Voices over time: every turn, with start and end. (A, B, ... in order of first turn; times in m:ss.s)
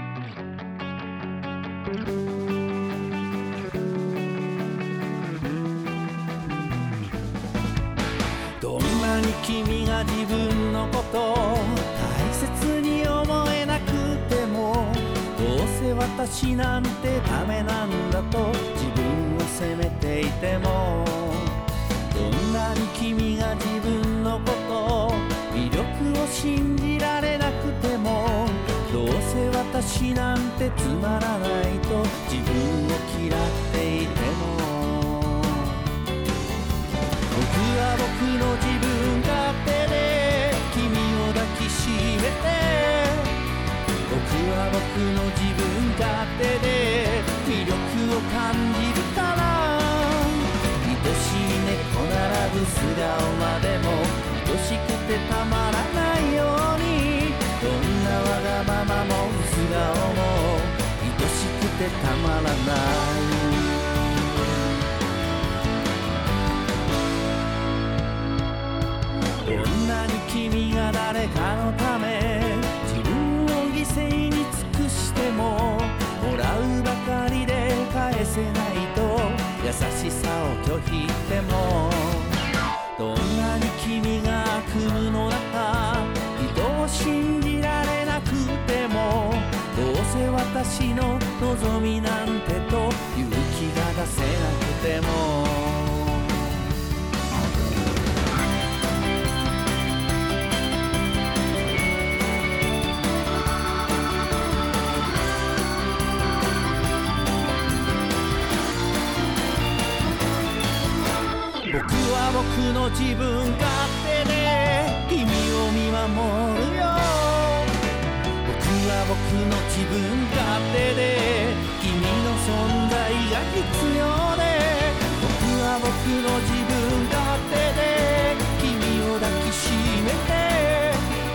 0:08.6-0:35.8 A
0:37.3-0:43.4 A
0:44.1-1:04.2 A
1:09.4-1:22.4 A
1:23.0-1:36.6 A
1:51.7-1:57.8 A
1:58.4-2:11.2 A